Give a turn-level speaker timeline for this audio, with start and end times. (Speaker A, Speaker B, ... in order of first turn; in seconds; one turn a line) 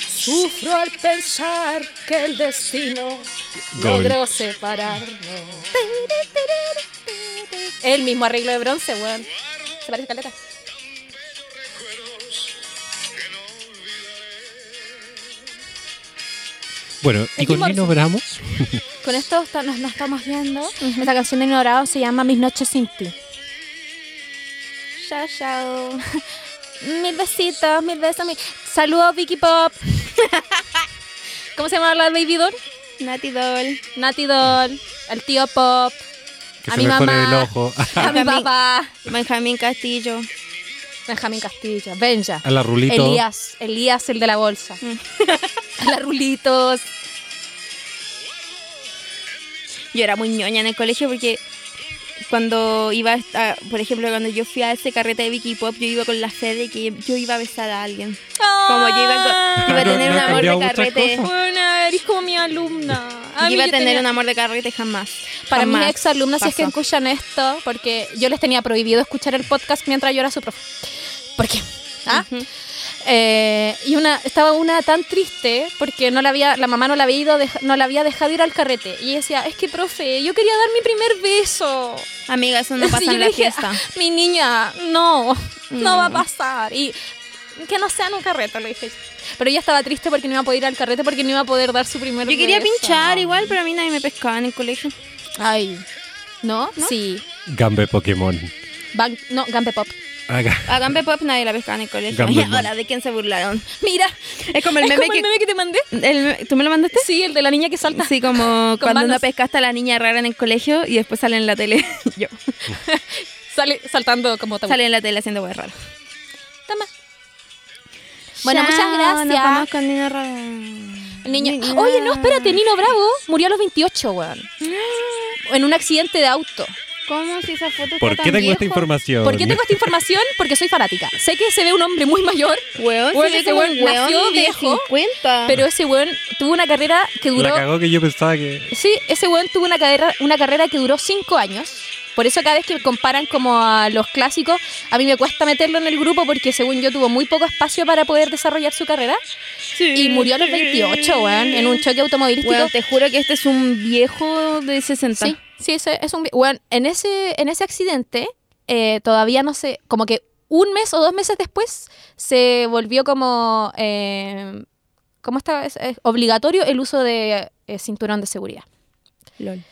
Speaker A: 0.2-10.3
Speaker B: 3.7-4.2
Speaker B: 17.0-18.8
Speaker A: 17.4-17.9
Speaker A: 19.0-23.1
Speaker C: 20.8-21.1
Speaker C: 25.0-26.2
Speaker A: 26.8-30.1
Speaker A: 31.5-32.6
Speaker C: 33.0-33.8
Speaker A: 33.9-36.0
Speaker B: 36.6-38.1
Speaker A: 36.6-39.0
Speaker C: 38.0-38.5
Speaker C: 39.0-40.3
Speaker A: 41.1-44.8
Speaker B: 42.4-43.2
Speaker C: 44.8-45.6
Speaker A: 45.8-46.9
Speaker C: 49.9-51.4
Speaker C: 52.2-61.3
Speaker A: 58.4-60.6
Speaker B: 59.6-61.3
Speaker A: 61.1-64.0
Speaker C: 63.4-66.7
Speaker A: 65.5-70.7
Speaker A: 71.4-72.3
Speaker C: 72.1-72.5
Speaker A: 73.0-82.1
Speaker C: 82.3-83.8
Speaker A: 82.8-87.0
Speaker C: 85.7-86.2
Speaker A: 87.5-93.5
Speaker C: 92.3-94.9
Speaker A: 95.4-95.8
Speaker A: 96.4-97.2
Speaker B: 97.5-98.5
Speaker A: 98.9-100.0
Speaker B: 100.3-100.9
Speaker C: 100.7-105.3
Speaker B: 102.1-102.7
Speaker A: 103.8-105.9
Speaker C: 105.9-107.1
Speaker A: 106.9-109.2
Speaker C: 107.9-112.3
Speaker A: 112.6-114.8
Speaker C: 114.7-115.7
Speaker C: 118.4-122.6
Speaker A: 118.4-119.7
Speaker A: 121.2-124.5
Speaker C: 124.6-125.4
Speaker A: 125.4-126.8
Speaker C: 127.1-128.9
Speaker B: 128.0-129.8
Speaker A: 129.2-134.9
Speaker C: 132.7-135.6
Speaker A: 135.4-137.6
Speaker B: 137.3-138.7
Speaker A: 138.7-149.2
Speaker C: 149.7-151.8
Speaker A: 149.9-152.7
Speaker C: 152.4-155.3
Speaker A: 155.2-164.7
Speaker A: 165.2-168.6
Speaker C: 169.4-169.6